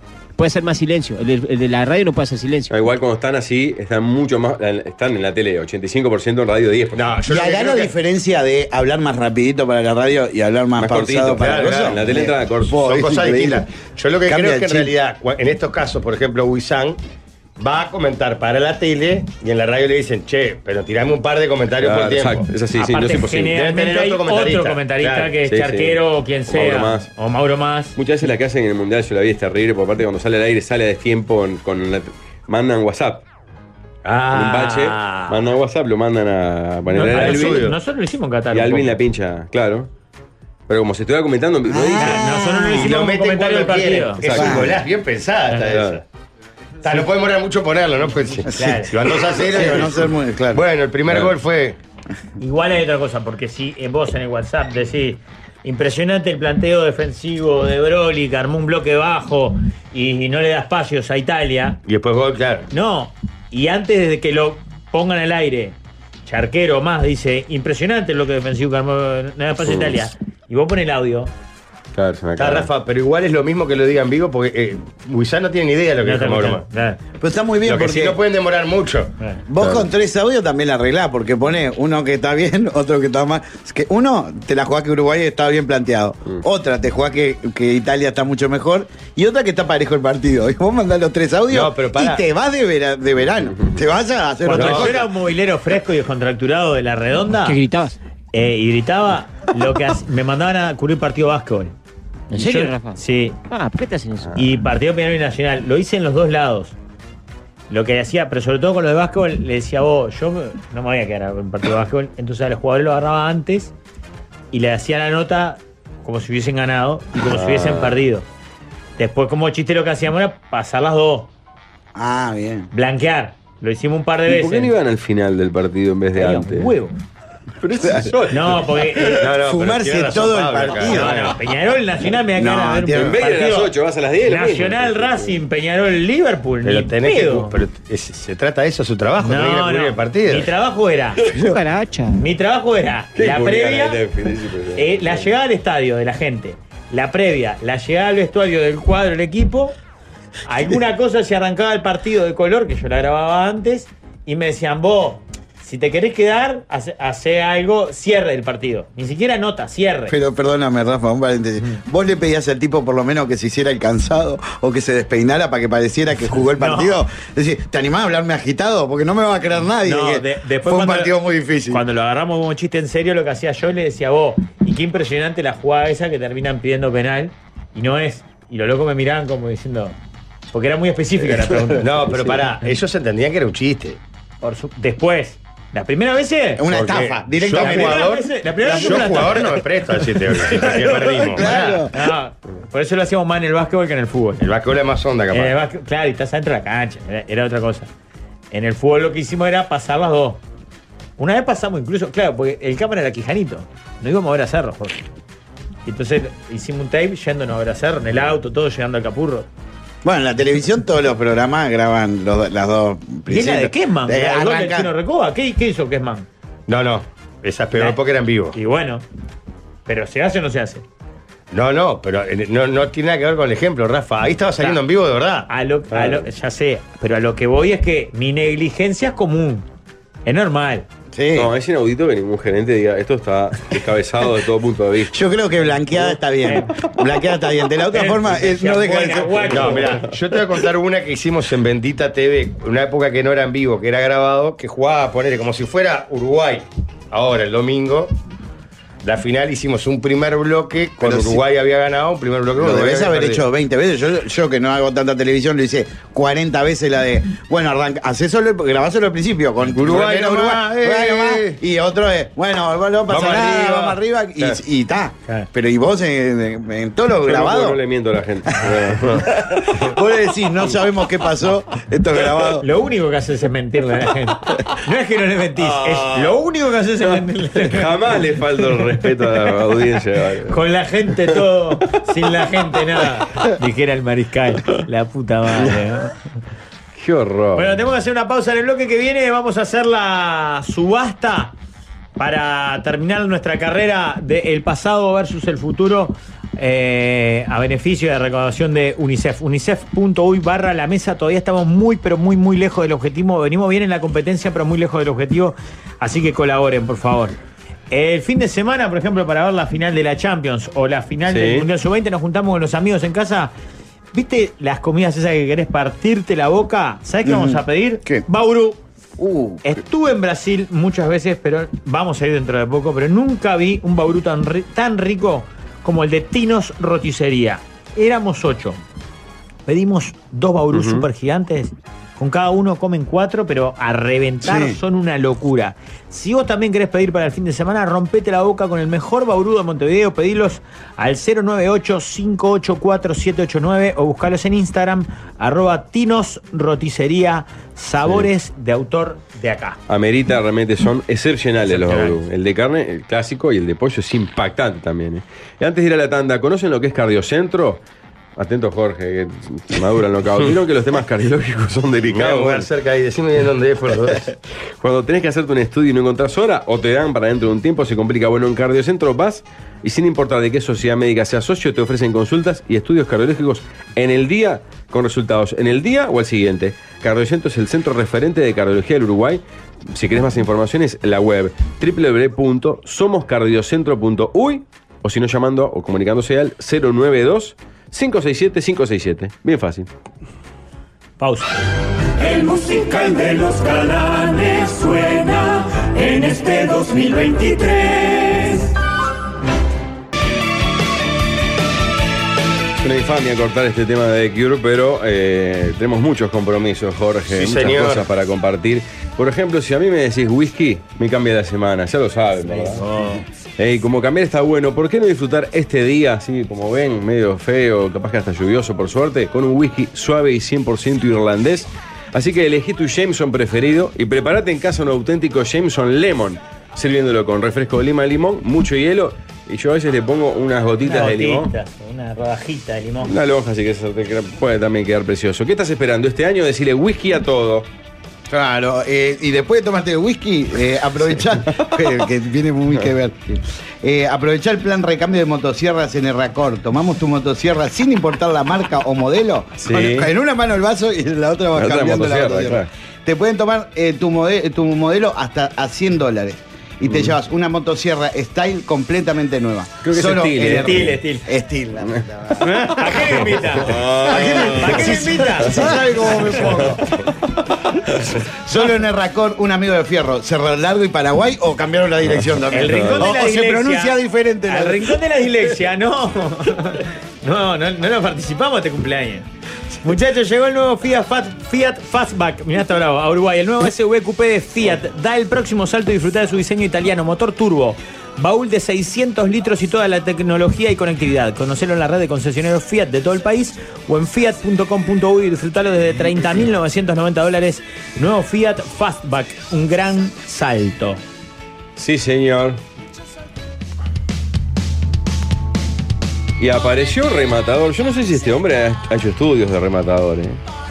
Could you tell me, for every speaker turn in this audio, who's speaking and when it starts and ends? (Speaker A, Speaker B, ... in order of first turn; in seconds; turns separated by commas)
Speaker A: 0.4-2.8, Speaker B: 2.7-7.1, Speaker C: 6.9-7.9, Speaker D: 7.3-13.7, Speaker B: 10.8-12.8, Speaker C: 11.4-17.0, Speaker D: 14.3-14.9, Speaker C: 17.6-22.5, Speaker B: 21.8-23.5, Speaker E: 22.7-27.9, Speaker C: 23.5-25.4, Speaker B: 25.4-27.1, Speaker B: 27.9-33.2, Speaker E: 34.0-35.4, Speaker B: 34.3-37.7, Speaker E: 36.9-39.0, Speaker C: 37.1-37.7, Speaker B: 38.5-39.9, Speaker B: 40.7-42.2, Speaker D: 41.6-42.9, Speaker E: 42.0-44.5, Speaker C: 42.7-46.0, Speaker B: 44.2-44.7, Speaker D: 44.3-44.7, Speaker B: 45.6-46.0, Speaker E: 46.8-47.1, Speaker C: 46.8-51.8, Speaker E: 48.4-49.0, Speaker D: 49.3-50.6, Speaker E: 52.4-61.8, Speaker C: 61.9-62.7, Speaker E: 62.7-71.3, Speaker B: 69.6-70.0, Speaker B: 71.9-72.7, Speaker C: 72.4-76.6, Speaker E: 76.0-77.0, Speaker D: 77.2-78.2, Speaker C: 77.6-79.1, Speaker D: 79.5-95.0, Speaker B: 79.6-79.9, Speaker C: 91.5-92.2, Speaker E: 94.4-97.6, Speaker C: 94.5-95.0, Speaker A: 97.4-98.0, Speaker E: 98.3-101.7, Speaker A: 102.3-104.4, Speaker E: 102.3-103.3, Speaker E: 104.3-106.7, Speaker E: 107.7-113.7, Speaker E: 114.5-118.2, Speaker B: 117.2-118.0, Speaker E: 119.0-121.3, Speaker D: 121.9-122.7, Speaker E: 122.7-124.7, Speaker B: 124.3-126.7, Speaker E: 126.1-127.0, Speaker B: 127.6-129.1, Speaker D: 127.8-128.1, Speaker E: 128.3-129.2, Speaker C: 129.1-131.4, Speaker D: 129.4-131.3, Speaker E: 130.8-133.7, Speaker D: 132.3-133.2, Speaker B: 132.9-135.4, Speaker E: 134.2-137.5, Speaker C: 136.6-140.5, Speaker E: 139.2-141.2, Speaker A: 141.2-142.2, Speaker E: 142.1-144.0, Speaker B: 143.2-145.3, Speaker E: 144.7-149.7, Speaker E: 150.4-160.2, Speaker D: 160.1-171.8, Speaker E: 166.4-167.0, Speaker E: 169.8-179.9, Speaker E: 180.5-182.1, Speaker C: 181.8-184.0, Speaker E: 184.4-186.7, Speaker D: 186.6-188.1, Speaker C: 186.7-191.9, Speaker E: 187.5-189.5, Speaker D: 190.5-191.9, Speaker E: 191.4-194.4, Speaker C: 194.4-195.6, Speaker E: 195.3-197.9, Speaker E: 198.5-200.4, Speaker E: 201.2-205.0, Speaker E: 205.8-209.5, Speaker D: 210.0-214.9, Speaker E: 213.3-216.3, Speaker C: 216.7-218.6, Speaker E: 218.5-219.0, Speaker E: 219.9-220.8, Speaker C: 221.5-225.5, Speaker E: 225.5-229.7, Speaker B: 225.9-226.2, Speaker E: 230.2-230.8, Speaker D: 231.1-231.5, Speaker B: 231.3-235.2, Speaker D: 235.1-239.9, Speaker E: 236.4-236.8, Speaker E: 237.9-240.0, Speaker C: 239.5-248.1, Speaker C: 249.0-253.4, Speaker D: 251.0-251.4, Speaker D: 252.6-267.8, Speaker C: 259.7-261.6, Speaker C: 263.1-264.6, Speaker B: 267.2-269.7, Speaker D: 269.8-272.6, Speaker E: 272.6-277.9, Speaker B: 275.6-276.3, Speaker B: 277.1-280.6, Speaker E: 280.5-286.1, Speaker B: 286.9-287.8, Speaker E: 287.5-291.5, Speaker E: 292.2-307.4, Speaker E: 307.9-313.5, Speaker B: 311.3-311.7, Speaker E: 314.1-318.8, Speaker D: 317.2-318.2, Speaker D: 319.2-319.6, Speaker E: 319.6-328.8, Speaker E: 329.6-349.8, Speaker B: 330.7-331.1, Speaker D: 334.4-334.8, Speaker B: 349.9-357.8, Speaker E: 351.6-352.2, Speaker B: 358.4-362.7, Speaker C: 362.1-364.3, Speaker B: 364.8-389.9, Speaker E: 391.2-391.5, Speaker F: 392.2-398.7, Speaker B: 402.8-412.9, Speaker C: 407.3-408.1, Speaker E: 412.5-413.2, Speaker B: 413.6-431.5, Speaker E: 430.8-433.1, Speaker B: 433.0-437.7, Speaker D: 438.3-462.5, Speaker B: 449.6-450.1, Speaker B: 451.5-452.7, Speaker B: 456.9-457.1, Speaker B: 459.8-461.0, Speaker E: 460.6-461.2, Speaker B: 462.5-465.2, Speaker E: 462.6-465.7, Speaker D: 464.0-466.8, Speaker B: 466.5-466.8, Speaker D: 468.4-475.0, Speaker E: 472.5-479.2, Speaker B: 472.7-473.1, Speaker E: 479.8-501.0, Speaker B: 501.8-502.6, Speaker B: 506.4-510.4